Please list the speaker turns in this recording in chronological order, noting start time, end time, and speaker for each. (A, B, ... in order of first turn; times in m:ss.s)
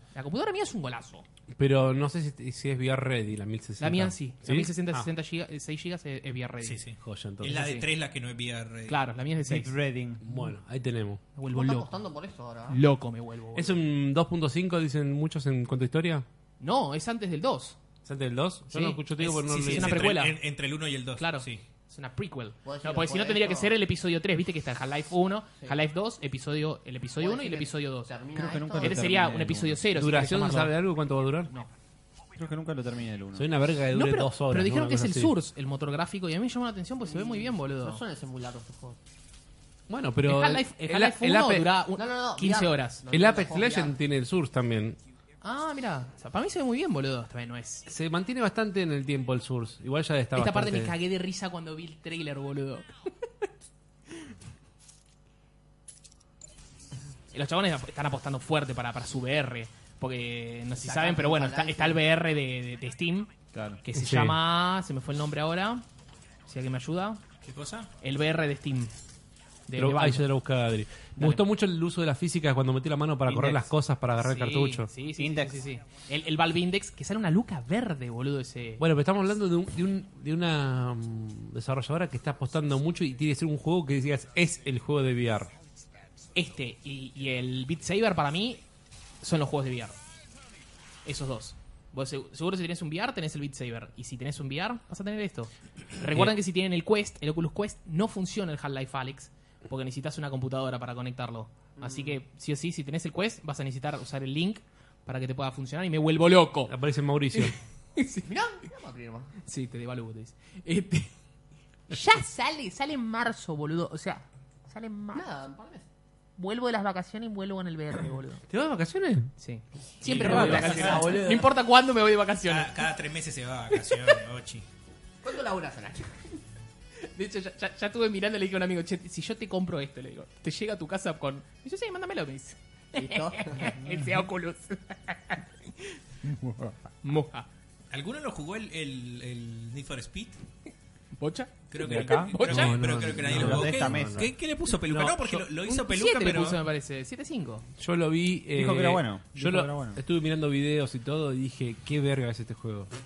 0:00.1-0:01.2 A
0:01.5-0:05.1 B
0:03.8-0:06.8 A
0:06.6-0:09.0 C
0:07.0-0:07.6 B
0:07.4-0:07.9 A
0:08.9-0:09.7 A
0:09.4-0:10.2 D
0:10.2-0:11.2 B
0:11.3-0:11.9 A
0:11.5-0:12.8 E
0:12.7-0:13.8 A
0:13.5-0:16.2 B
0:16.6-0:17.8 A
0:18.0-0:20.1 B
0:18.7-0:20.4 A
0:19.5-0:21.6 C
0:21.2-0:28.1 A
0:22.6-0:23.7 E
0:27.2-0:29.1 E
0:28.3-0:29.8 D
0:28.8-0:30.8 A
0:29.9-0:31.5 B
0:32.4-0:33.5 D
0:33.3-0:35.3 B
0:33.9-0:38.0 A
0:37.0-0:39.0 E
0:39.9-0:41.8 B
0:40.2-0:43.0 A
0:42.0-0:44.0 E
0:43.1-0:45.0 B
0:45.4-0:47.9 A
0:47.9-0:50.9 B
0:50.3-0:52.9 A
0:57.3-1:05.8 A
1:00.8-1:02.0 E
1:03.5-1:03.8 D
1:03.9-1:04.4 B
1:06.5-1:07.2 A
1:07.4-1:07.9 C
1:08.0-1:08.9 A
1:09.7-1:10.3 A
1:09.7-1:14.9 B
1:11.2-1:11.4 A
1:14.2-1:18.8 A
1:15.2-1:15.6 D
1:18.8-1:25.5 B
1:26.3-1:28.6 A
1:29.2-1:30.0 A
1:31.0-1:46.7 A
1:41.8-1:42.2 E
1:46.7-1:47.5 B
1:47.3-1:48.3 A
1:48.2-1:49.3 E
1:49.4-1:51.1 A
1:51.9-1:55.3 A
1:55.1-1:55.8 E
1:56.4-1:58.4 A
1:58.5-1:59.3 B
1:59.4-2:02.8 A
2:00.0-2:01.2 C
2:00.1-2:01.5 E
2:00.3-2:00.6 B
2:02.4-2:04.6 C
2:05.2-2:06.4 E
2:07.1-2:16.0 A
2:12.9-2:13.8 E
2:13.8-2:14.2 D
2:16.2-2:16.9 D
2:17.0-2:17.5 A
2:17.9-2:20.4 C
2:21.2-2:22.8 A
2:21.7-2:26.6 C
2:21.8-2:22.4 D
2:22.4-2:24.3 B
2:23.2-2:24.3 D
2:24.9-2:27.6 A
2:27.8-2:32.9 B
2:28.5-2:30.0 D